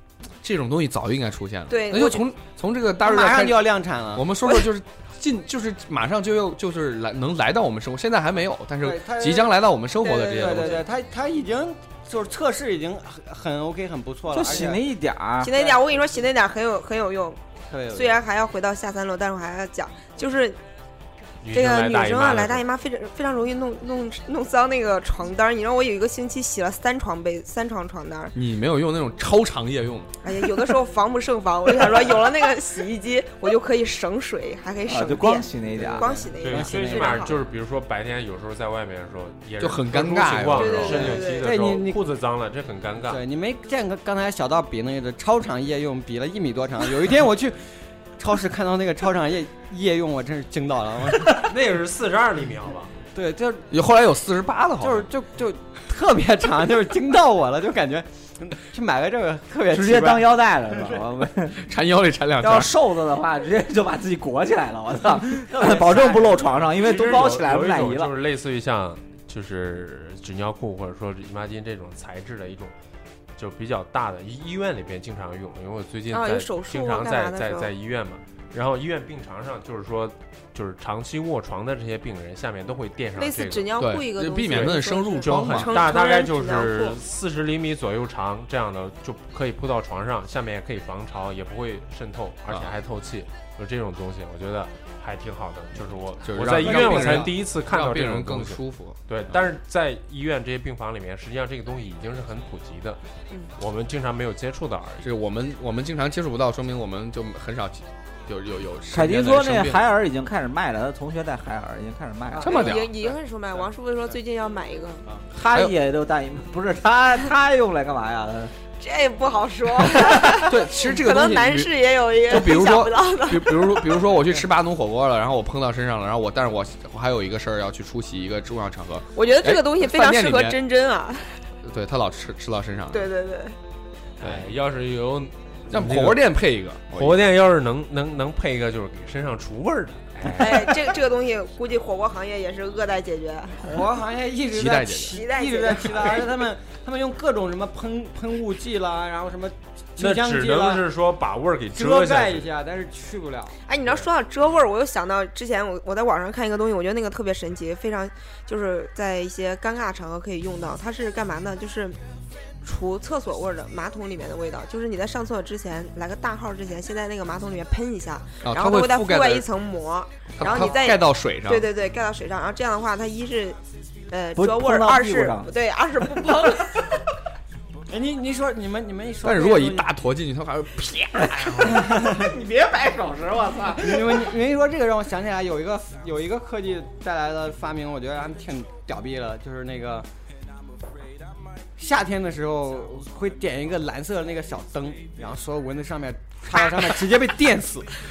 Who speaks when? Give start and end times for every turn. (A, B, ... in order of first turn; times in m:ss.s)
0:00.4-0:10.9 A
0:01.7-0:02.2 B
0:03.0-0:04.3 C
0:08.8-0:14.9 C
0:14.3-0:15.5 D
0:15.4-0:20.6 B
0:15.5-0:15.8 C
0:17.7-0:18.2 C
0:21.4-0:22.6 E
0:21.5-0:28.3 B
0:28.3-0:30.1 A
0:30.2-0:37.4 B
0:34.9-0:36.2 D
0:35.8-0:37.4 C
0:36.4-0:43.2 E
0:39.6-0:41.2 A
0:40.5-0:41.5 B
0:41.4-0:42.0 C
0:43.0-0:51.5 C
0:51.3-0:52.9 E
0:53.1-0:53.7 C
0:53.7-0:55.1 A
0:54.8-1:01.0 C
0:59.7-1:01.6 D
1:01.5-1:02.7 A
1:02.4-1:08.1 D
1:05.6-1:06.5 C
1:06.7-1:12.7 E
1:13.4-1:23.7 E
1:16.1-1:17.7 B
1:23.2-1:27.0 B
1:23.8-1:26.0 A
1:24.5-1:43.0 E
1:32.5-1:32.8 A
1:36.2-1:39.3 A
1:36.6-1:37.1 C
1:43.6-1:45.0 E
1:45.0-1:49.8 A
1:48.9-1:52.5 D
1:52.3-1:53.1 C
1:52.4-1:52.9 A
1:52.4-1:55.0 B
1:55.3-1:58.5 D
1:58.8-2:04.1 B
2:00.1-2:10.6 A
2:09.1-2:11.4 B
2:11.6-2:13.1 A
2:12.9-2:13.6 B
2:14.2-2:16.2 E
2:14.2-2:14.5 A
2:15.7-2:17.2 A
2:16.9-2:20.8 E
2:20.2-2:23.8 B
2:23.6-2:30.8 C
2:24.5-2:25.2 A
2:25.1-2:26.3 B
2:30.0-2:32.5 E
2:31.7-2:33.6 C
2:33.7-2:42.0 B
2:42.6-2:53.6 B
2:48.4-2:49.5 A
2:50.4-2:51.7 A
2:54.1-2:56.8 B
2:54.4-2:55.5 D
2:57.9-2:59.9 C
2:59.2-3:01.9 A
3:01.6-3:04.3 D
3:01.8-3:02.3 C
3:03.8-3:10.1 C
3:11.8-3:17.9 C